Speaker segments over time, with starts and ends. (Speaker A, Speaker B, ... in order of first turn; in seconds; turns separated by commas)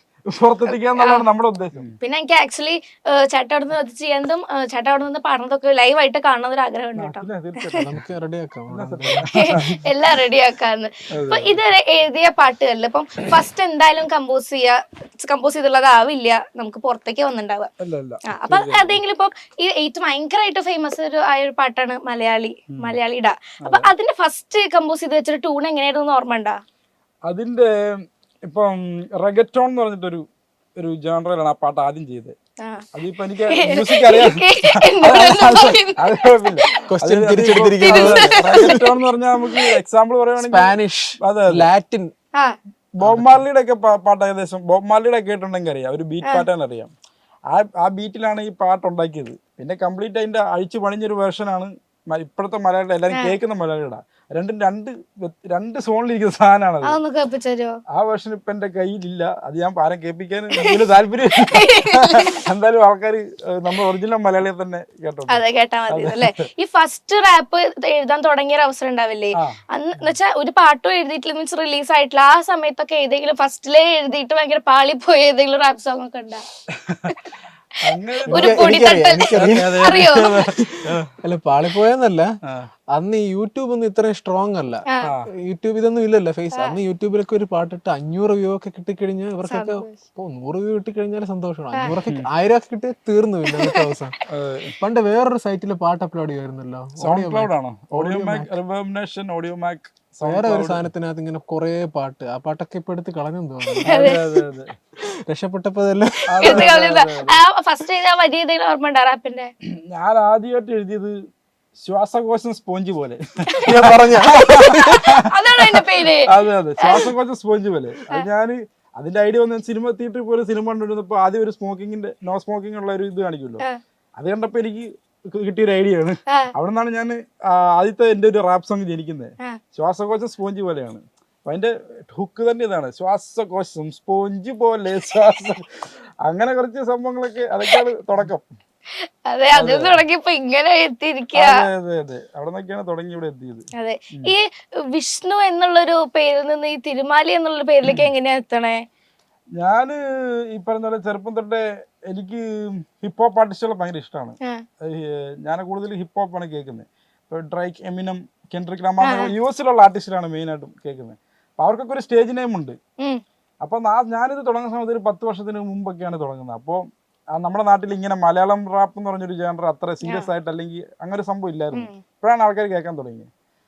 Speaker A: 0.3-1.9, Speaker B: 1.0-1.3, Speaker B: 2.0-7.2, Speaker A: 7.0-7.9, Speaker C: 7.8-9.6, Speaker A: 8.7-9.7, Speaker B: 9.3-17.7, Speaker A: 11.1-11.6, Speaker A: 17.8-19.0, Speaker B: 18.3-26.6, Speaker A: 23.6-23.9, Speaker A: 27.3-27.7, Speaker A: 28.5-30.2, Speaker A: 30.8-32.4, Speaker A: 32.9-34.4, Speaker B: 33.5-36.0, Speaker A: 35.0-41.7, Speaker C: 36.9-38.8, Speaker B: 37.8-38.8, Speaker C: 40.4-42.1, Speaker A: 43.0-46.9, Speaker C: 43.0-43.5, Speaker A: 47.5-57.0, Speaker B: 53.1-53.4, Speaker B: 56.8-57.7, Speaker A: 57.9-66.3, Speaker B: 61.5-62.3, Speaker B: 65.3-76.4, Speaker A: 77.8-78.8, Speaker C: 78.3-80.0, Speaker B: 78.3-80.3, Speaker A: 79.4-81.1, Speaker C: 80.6-82.3, Speaker C: 82.9-84.8, Speaker A: 85.0-85.3, Speaker C: 85.5-94.1, Speaker B: 89.5-90.0, Speaker A: 94.3-94.7, Speaker C: 94.8-98.5, Speaker A: 97.0-100.8, Speaker C: 100.2-103.9, Speaker B: 103.8-104.2, Speaker A: 103.8-104.7, Speaker C: 105.3-106.7, Speaker A: 106.3-107.3, Speaker B: 106.4-109.5, Speaker A: 109.9-111.2, Speaker A: 111.8-123.6, Speaker C: 113.7-115.0, Speaker B: 114.3-116.3, Speaker B: 116.8-117.1, Speaker A: 124.2-138.4, Speaker B: 139.3-141.5, Speaker A: 139.5-140.0, Speaker A: 141.3-144.3, Speaker B: 143.8-148.8, Speaker A: 147.8-148.1, Speaker A: 149.6-150.0, Speaker A: 150.5-162.8, Speaker B: 159.0-159.3, Speaker A: 163.6-173.3, Speaker B: 170.0-170.3, Speaker B: 171.7-172.0